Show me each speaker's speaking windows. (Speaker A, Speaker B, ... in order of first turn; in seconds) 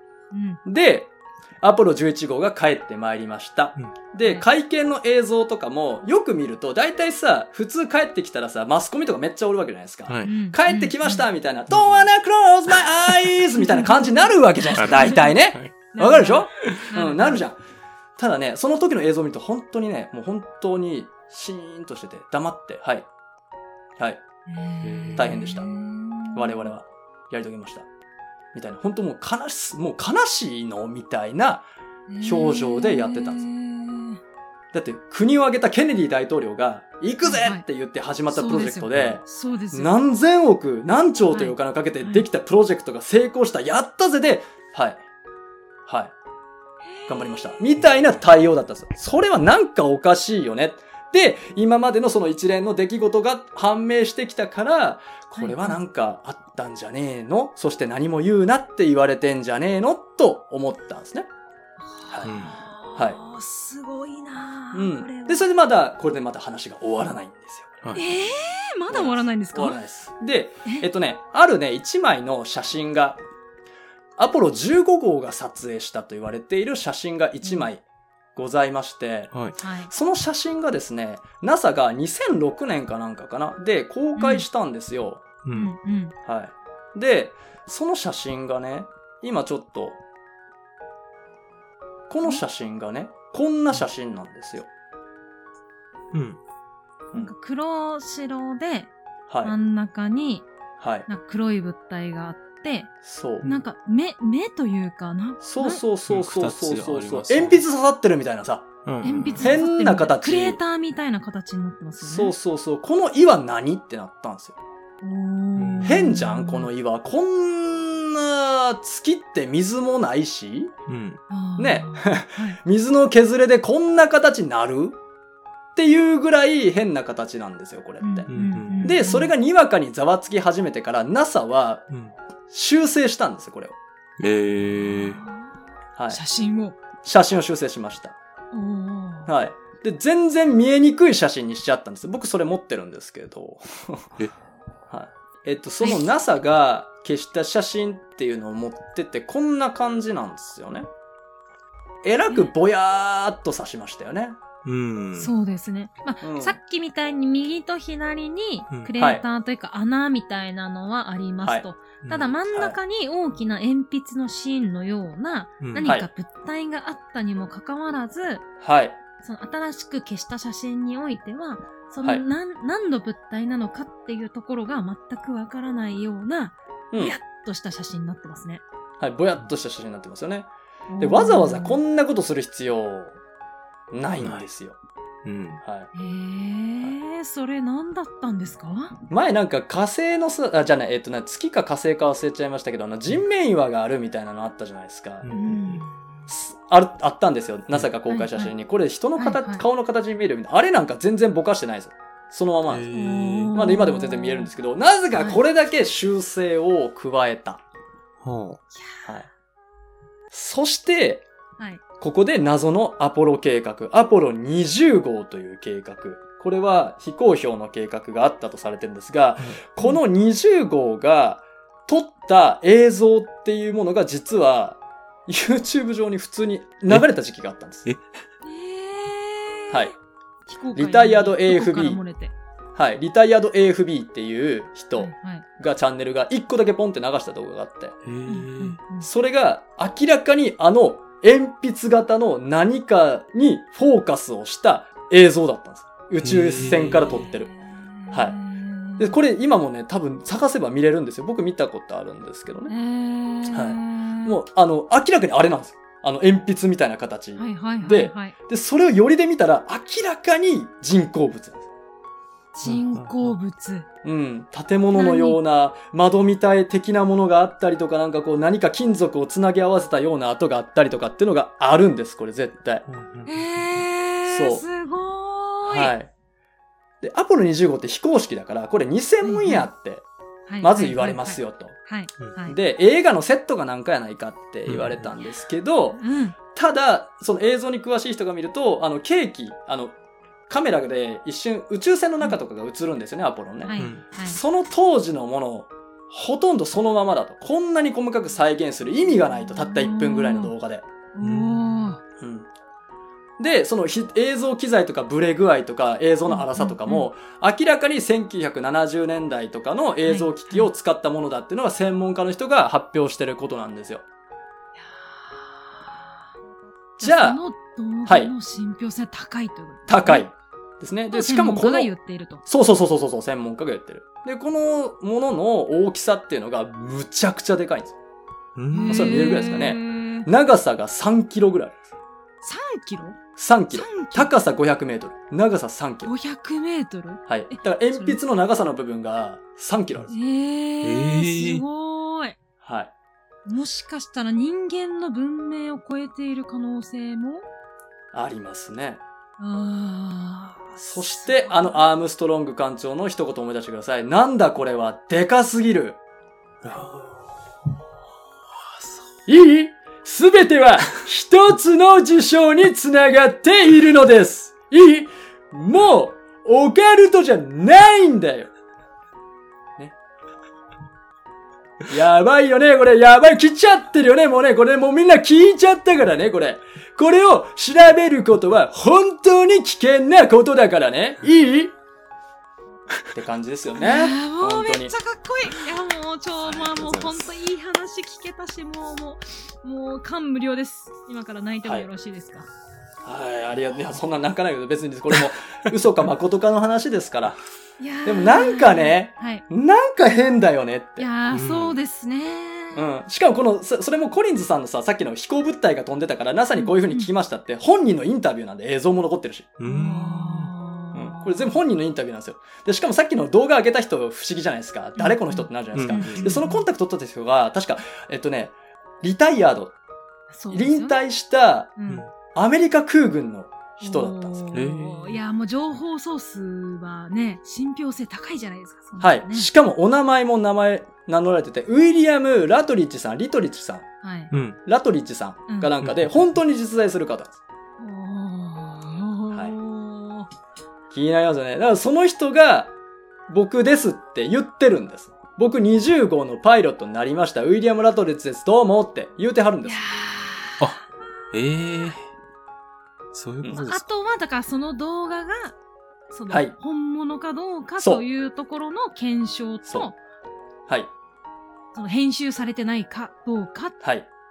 Speaker A: 0.3-0.6, 10.2-11.2, 13.6-15.3, 15.9-17.4, 24.5-26.7, 32.1-34.2, 37.2-37.6, 38.3-39.9, 41.3-42.2, 46.9-47.7, 55.4-55.8, 61.9-65.4, 67.9-69.8, 79.6-79.9, 84.2-84.5, 85.5-86.1, 97.1-98.9, 99.4-100.5, 101.1-105.8, 109.0-112.3, 115.0-116.7, 121.3-122.6, 128.0-129.3, 134.8-135.5, 136.1-136.8, 138.5-139.3, 155.2-168.5, 169.2-178.6, 180.9-181.8, 185.9-188.9, 195.3-195.9, 198.1-198.5, 199.2-199.6, 202.9-204.5, 228.4-229.9, 230.4-232.3, 235.0-235.4, 238.3-239.1, 247.1-249.2, 252.7-254.4, 257.4-258.3, 262.5-263.9, 264.9-265.4, 273.2-275.9, 279.2-279.7, 280.5-282.6, 286.0-286.4, 293.6-294.4, 299.4-300.5, 301.1-302.0, 306.3-307.1, 310.0-310.7, 314.8-316.2, 317.0-320.2, 321.1-322.4, 328.7-330.3, 332.4-333.2, 333.7-334.3, 336.0-338.2, 340.1-342.4, 343.4-347.4, 349.4-351.8, 383.8-392.5, 397.8-399.4, 401.0-402.9, 406.6-407.1, 409.6-411.6, 415.0-416.6, 420.3-421.0, 421.8-422.0, 423.8-429.5, 434.0-434.3, 437.8-440.3, 449.6-451.1, 453.5-455.6, 456.1-460.0, 461.7-463.8
Speaker B: 0.6-17.6, 18.2-23.1, 25.1-25.7, 26.3-27.9, 28.5-31.6, 32.2-33.4, 34.7-45.0, 45.9-46.1, 47.1-61.3, 62.0-62.3, 64.7-67.9, 68.9-73.2, 74.2-77.8, 78.4-79.3, 79.9-85.2, 86.2-90.0, 92.1-94.7, 99.3-99.5, 100.8-101.1, 103.0-103.5, 105.4-108.7, 109.4-110.6, 112.0-114.5, 115.8-120.7, 121.6-125.0, 125.8-131.9, 132.5-133.8, 137.0-138.2, 139.3-144.1, 144.9-150.9, 152.0-154.4, 156.2-156.6, 159.0-159.2, 161.4-161.7, 162.5-162.8, 168.6-168.9, 179.0-180.5, 181.0-183.2, 183.9-184.8, 185.6-185.9, 189.1-195.3, 196.3-202.9, 203.5-207.6, 210.3-211.3, 212.0-227.9, 230.7-232.0, 232.8-237.9, 239.0-247.5, 249.0-252.7, 253.5-261.6, 264.0-272.9, 274.2-274.6, 275.6-276.1, 277.0-280.0, 280.6-281.8, 282.4-289.9, 290.5-300.8, 302.2-302.5, 303.4-314.0, 317.0-317.4, 318.1-318.3, 319.9-321.9, 322.4-327.9, 328.9-331.8, 333.4-336.1, 337.3-340.1, 342.6-342.9, 348.1-349.0, 350.8-356.0, 359.3-368.5, 371.9-381.7, 383.1-384.9, 393.0-397.4, 398.0-401.1, 402.7-409.6, 410.9-419.8, 420.5-421.7, 422.3-424.5, 429.0-433.9, 434.6-437.4, 439.3-439.6, 440.9-442.7, 443.3-449.8, 456.3-456.5, 463.8-464.1
Speaker C: 10.1-10.3, 11.7-12.1, 14.7-15.7, 24.8-25.4, 62.2-62.5, 79.3-79.6, 85.4-85.7, 96.1-96.4, 106.1-107.6, 108.8-109.6, 115.6-116.0, 120.9-121.2, 128.3-128.9, 131.9-132.1, 134.2-135.2, 154.6-155.3, 162.0-162.3, 165.6-165.9, 184.2-184.4, 185.2-185.6, 195.2-195.8, 202.7-203.6, 208.2-208.6, 238.0-238.8, 246.2-247.3, 262.6-263.4, 272.9-273.8, 284.7-285.1, 293.7-294.0, 301.2-302.0, 328.6-329.5, 340.8-341.6, 356.6-357.3, 358.5-359.0, 386.4-387.3, 401.3-401.8, 409.6-410.5, 415.7-416.4, 424.5-425.2, 434.3-434.6, 451.3-452.1, 453.1-453.8